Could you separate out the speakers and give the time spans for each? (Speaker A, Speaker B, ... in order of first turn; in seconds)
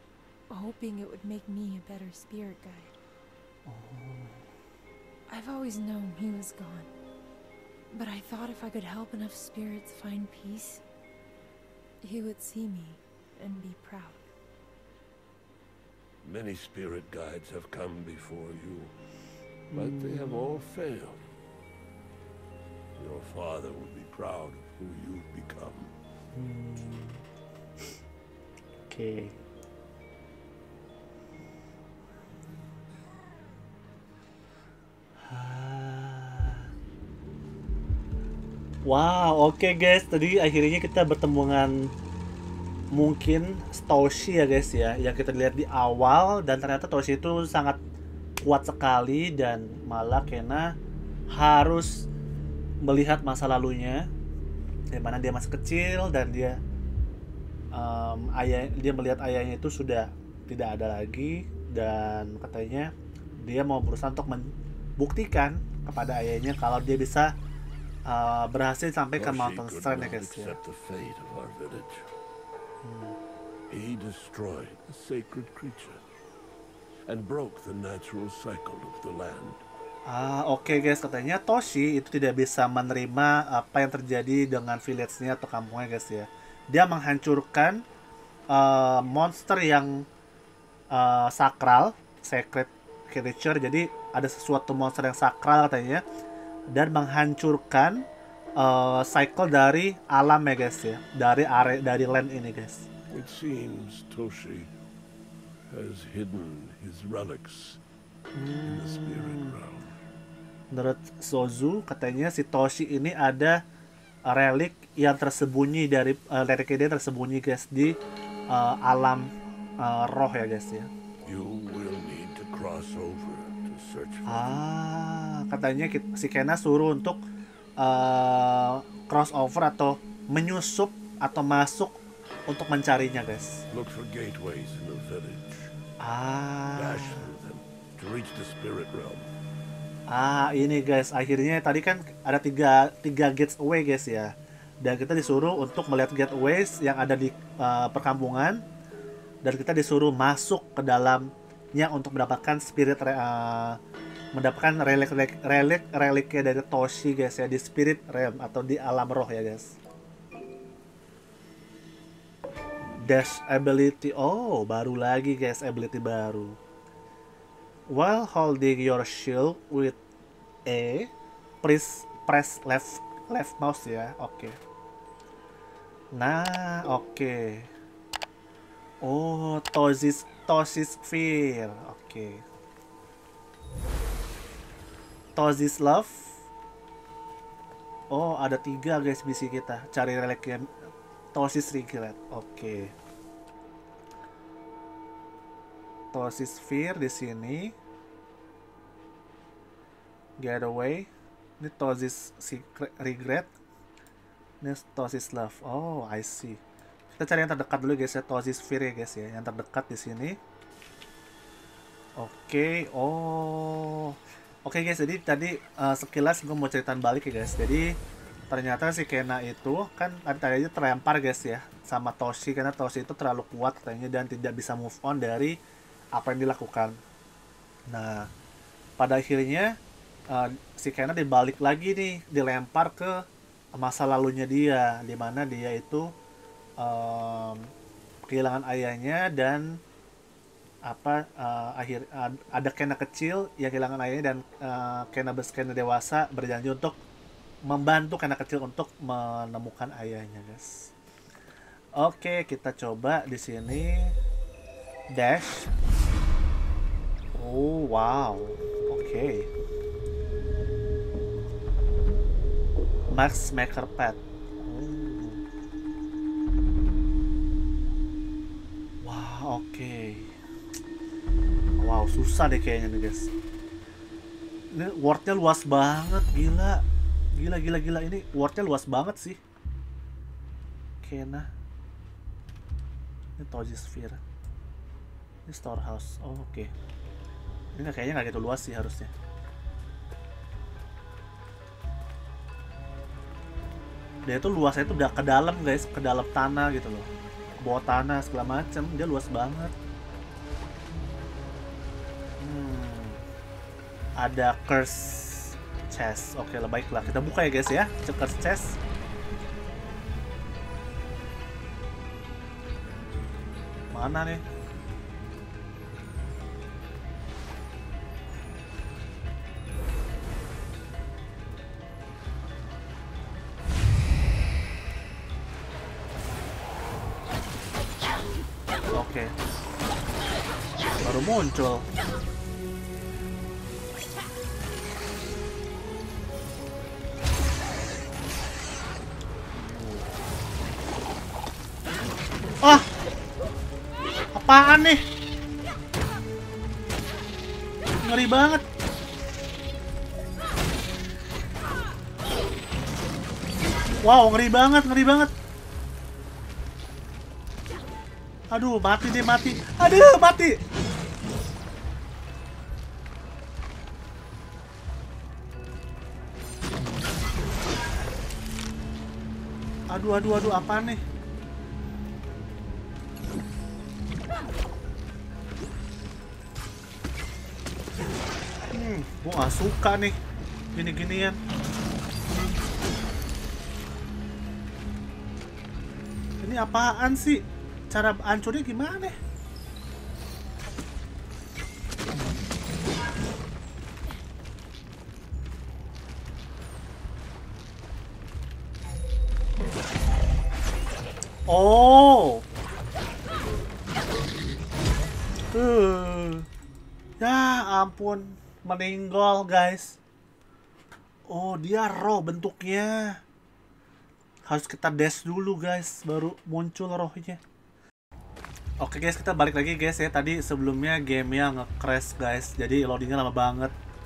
Speaker A: 0.5-2.9, 5.3-6.9, 7.9-10.8, 12.0-14.2
Speaker B: 3.6-4.4, 19.7-20.4, 26.3-27.2, 28.9-29.4, 35.2-36.7, 38.8-41.9, 42.9-47.8, 48.4-50.7, 51.3-52.1, 52.8-54.1, 54.9-56.6, 57.7-67.3, 68.0-70.6, 72.8-73.2, 80.1-87.8, 88.5-90.0, 90.9-96.0, 96.7-98.0, 98.6-102.9, 108.3-109.6, 110.7-113.6, 114.2-118.0, 118.5-120.9, 124.3-127.2, 127.8-133.6, 136.0-137.3, 140.1-148.6, 149.4-153.8, 154.3-159.8, 163.1-166.6, 167.9-170.0, 170.7-171.1, 171.6-174.6, 176.1-177.7, 179.0-182.4, 185.3-186.3, 188.1-190.7, 191.3-192.9, 196.1-197.7, 200.4-201.1, 201.6-203.5, 204.6-206.6, 207.2-210.4, 212.2-217.9, 218.5-225.6, 226.1-226.9, 227.9-228.3, 229.0-229.7, 230.3-233.2, 233.7-236.1, 236.8-237.7, 238.3-239.8, 240.8-247.0, 247.6-250.9, 251.9-254.1, 255.1-255.7, 257.3-259.5, 263.1-265.4, 269.0-270.3, 271.8-273.3, 274.7-276.8, 277.3-279.4, 281.0-281.5, 283.4-284.2, 285.5-286.7, 287.8-289.1, 294.2-297.1, 297.6-299.7, 302.4-303.2, 304.2-308.8, 313.9-314.4, 328.9-329.3, 331.0-331.9, 339.5-340.1, 344.3-345.0, 348.0-348.6, 354.0-355.3, 358.5-360.6, 369.9-371.0, 378.7-380.1, 380.7-381.4, 386.4-389.1, 392.1-392.4, 401.5-402.4, 405.5-406.5, 407.2-410.0, 411.3-413.2, 414.5-417.4, 418.8-423.7
Speaker C: 16.2-18.9, 19.7-21.2, 22.9-25.9, 69.2-72.1, 73.7-76.0, 77.1-79.6, 103.1-104.7, 105.7-107.8, 108.6-109.9, 121.2-124.6, 133.7-135.7, 136.7-139.3